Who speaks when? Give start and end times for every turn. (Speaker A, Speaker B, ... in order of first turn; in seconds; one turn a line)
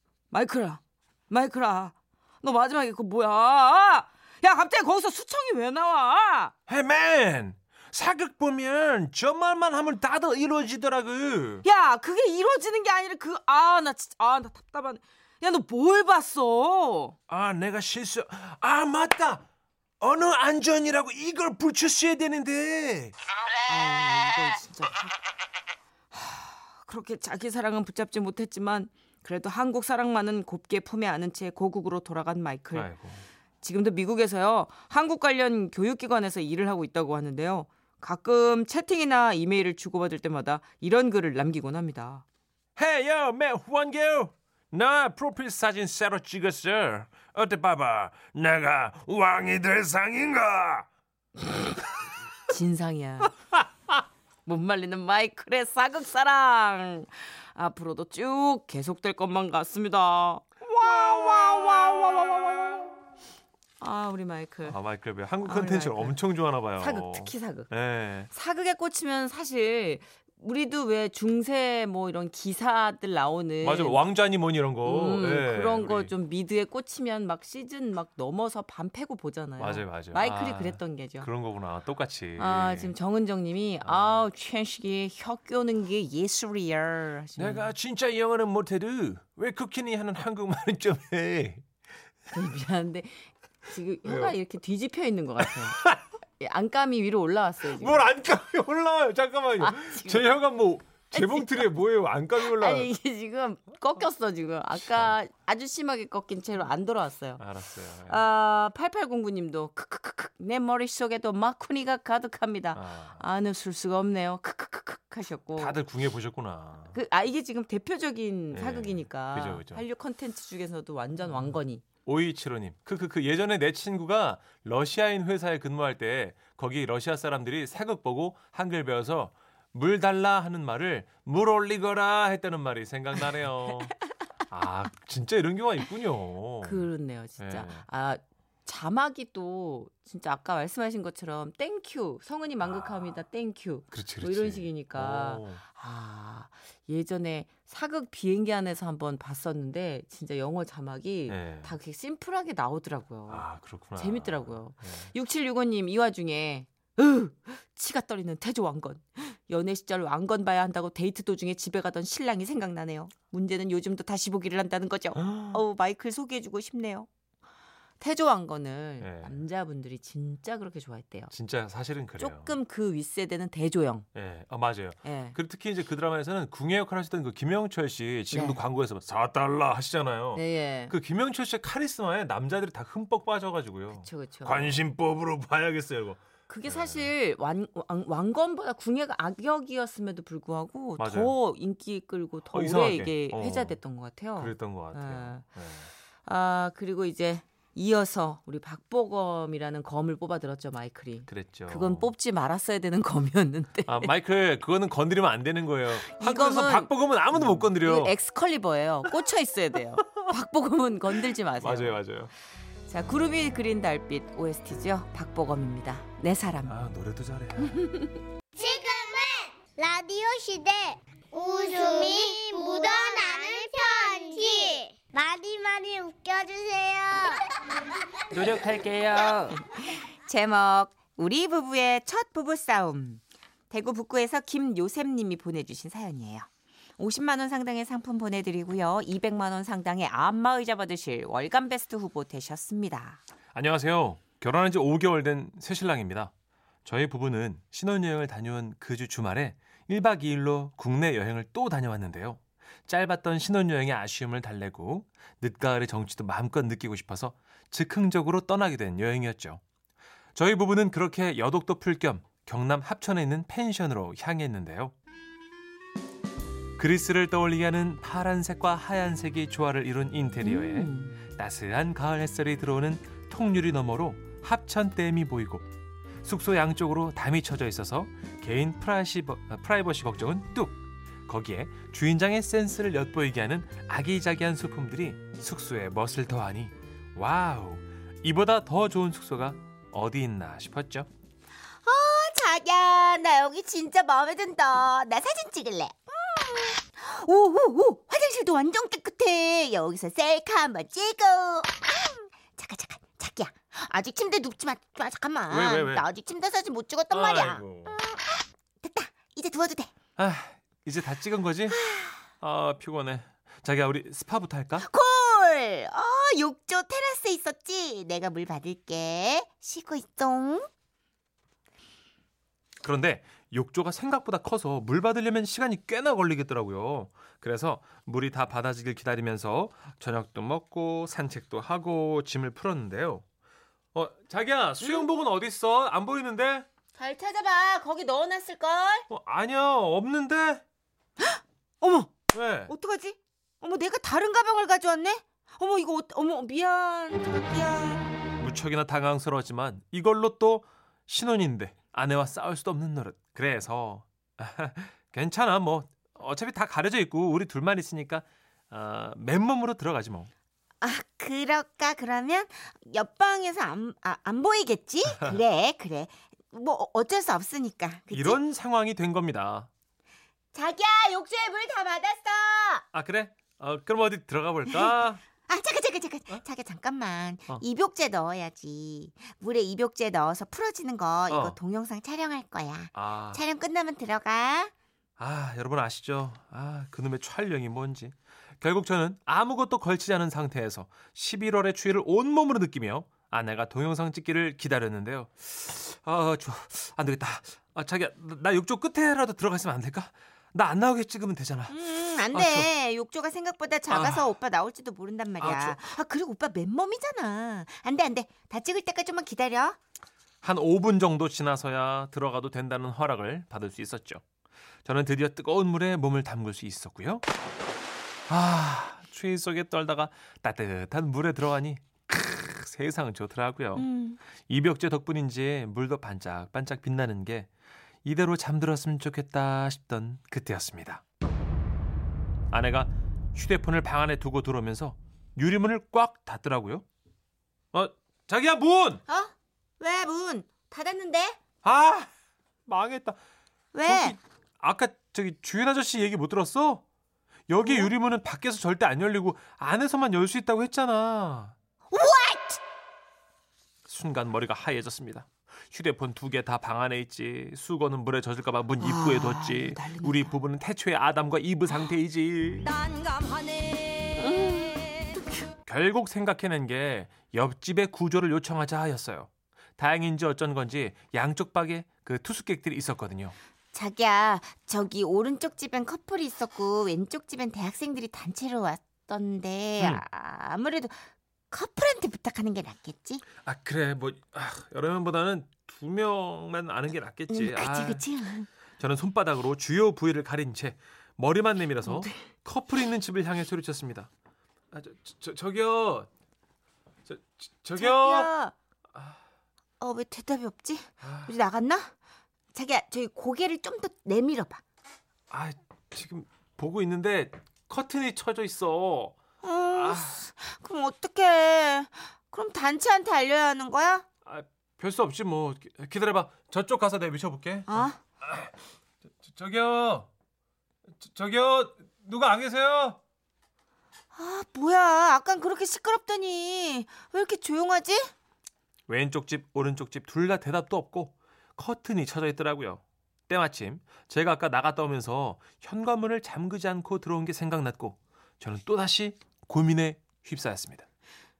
Speaker A: 0.3-6.5
Speaker B: 6.7-11.6
Speaker A: 11.6-17.2
Speaker B: 17.3-19.4
Speaker B: 20.0-23.1
Speaker A: 23.7-25.2
Speaker A: 26.1-32.9
Speaker B: 32.7-33.3
Speaker A: 33.6-42.2
Speaker B: 42.8-50.9
Speaker A: 52.5-53.3
Speaker A: 54.5-62.9
Speaker A: 63.8-64.8
Speaker B: 64.7-68.3
Speaker A: 65.4-66.2
Speaker A: 66.8-67.7
Speaker A: 68.3-74.0
Speaker B: 73.6-76.1
Speaker A: 74.8-81.3
Speaker B: 79.6-82.9
Speaker A: 82.4-87.7
Speaker B: 83.8-84.3
Speaker B: 87.4-91.6
Speaker A: 92.3-95.8
Speaker B: 94.0-94.4
Speaker A: 96.4-98.1
Speaker B: 97.7-102.9
Speaker A: 99.6-100.3
Speaker A: 101.1-101.7
Speaker A: 102.4-107.4
Speaker B: 107.4-108.2
Speaker A: 108.1-115.8
Speaker B: 112.8-113.2
Speaker B: 115.6-117.0
Speaker A: 116.9-121.8
Speaker B: 118.5-119.8
Speaker B: 121.3-134.0
Speaker B: 134.5-137.8
Speaker A: 136.6-167.1
Speaker B: 142.6-143.2
Speaker B: 143.9-145.6
Speaker B: 151.3-151.8
Speaker B: 153.3-155.1
Speaker B: 165.2-165.6
Speaker A: 168.0-171.3
Speaker B: 169.0-169.4
Speaker B: 171.3-172.6
Speaker A: 172.2-174.1
Speaker B: 174.2-187.1
Speaker A: 175.0-175.4
Speaker A: 178.3-178.6
Speaker A: 180.3-180.9
Speaker A: 183.9-184.8
Speaker A: 186.5-195.4
Speaker B: 191.0-191.3
Speaker B: 192.5-193.8
Speaker B: 194.3-195.9
Speaker A: 196.2-204.1
Speaker B: 201.3-202.1
Speaker B: 203.9-208.1
Speaker A: 206.1-212.0
Speaker B: 211.6-212.3
Speaker A: 212.9-216.8
Speaker B: 216.7-217.9
Speaker A: 217.8-218.1
Speaker C: 218.6-227.4
Speaker A: 228.3-229.6
Speaker A: 230.3-233.2
Speaker A: 233.7-236.5
Speaker A: 237.0-243.2
Speaker B: 243.5-246.3
Speaker B: 246.8-259.6
Speaker B: 260.4-264.9
Speaker B: 266.8-275.7
Speaker A: 270.4-271.2
Speaker B: 276.2-291.1
Speaker D: 291.9-295.9
Speaker A: 292.9-293.2
Speaker A: 294.0-295.2
Speaker A: 296.2-299.4
Speaker D: 297.0-308.1
Speaker B: 305.5-306.1
Speaker B: 307.1-308.0
Speaker D: 308.8-309.9
Speaker B: 310.2-311.9
Speaker B: 312.4-314.9
Speaker D: 314.9-320.6
Speaker A: 315.2-316.9
Speaker B: 322.8-333.2
Speaker B: 333.9-336.7
Speaker A: 337.0-339.1
Speaker B: 339.1-340.6
Speaker A: 341.2-342.1
Speaker B: 342.3-342.7
Speaker A: 342.7-348.0
Speaker B: 348.4-360.3
Speaker D: 360.8-368.4
Speaker B: 365.1-365.4
Speaker B: 368.1-369.7
Speaker D: 370.5-372.8
Speaker B: 372.9-375.2
Speaker D: 375.5-384.7
Speaker B: 381.3-381.6
Speaker B: 382.9-383.4
Speaker B: 385.2-402.7
Speaker D: 401.9-409.8
Speaker B: 403.9-404.4
Speaker B: 405.4-405.9
Speaker B: 410.4-414.2
Speaker B: 414.9-417.2
Speaker B: 418.3-423.9
Speaker B: 424.4-427.5
Speaker B: 428.1-431.0
Speaker B: 432.5-436.9
Speaker B: 437.7-439.0
Speaker A: 439.1-441.4
Speaker D: 440.4-440.7
Speaker B: 441.6-442.1
Speaker B: 442.7-443.2
Speaker A: 443.8-444.1
Speaker B: 443.9-446.8
Speaker B: 447.5-451.6
Speaker A: 451.9-452.5
Speaker D: 451.9-452.6
Speaker B: 453.9-463.1
Speaker A: 458.8-460.3
Speaker A: 464.1-465.1
Speaker B: 465.7-473.4
Speaker D: 473.7-481.0
Speaker D: 481.5-483.2
Speaker B: 483.4-488.0
Speaker D: 487.3-488.5
Speaker B: 488.8-494.1
Speaker B: 494.7-496.1
Speaker B: 497.1-498.3
Speaker D: 497.8-498.5
Speaker D: 499.8-501.9
Speaker B: 501.0-501.4
Speaker D: 502.5-504.6
Speaker B: 505.3-509.2
Speaker B: 509.7-510.3
Speaker D: 509.7-514.0
Speaker A: 510.5-513.7
Speaker B: 514.3-518.5
Speaker A: 517.7-518.0
Speaker B: 519.2-520.1
Speaker B: 521.0-523.0
Speaker A: 524.1-528.1
Speaker B: 528.9-540.9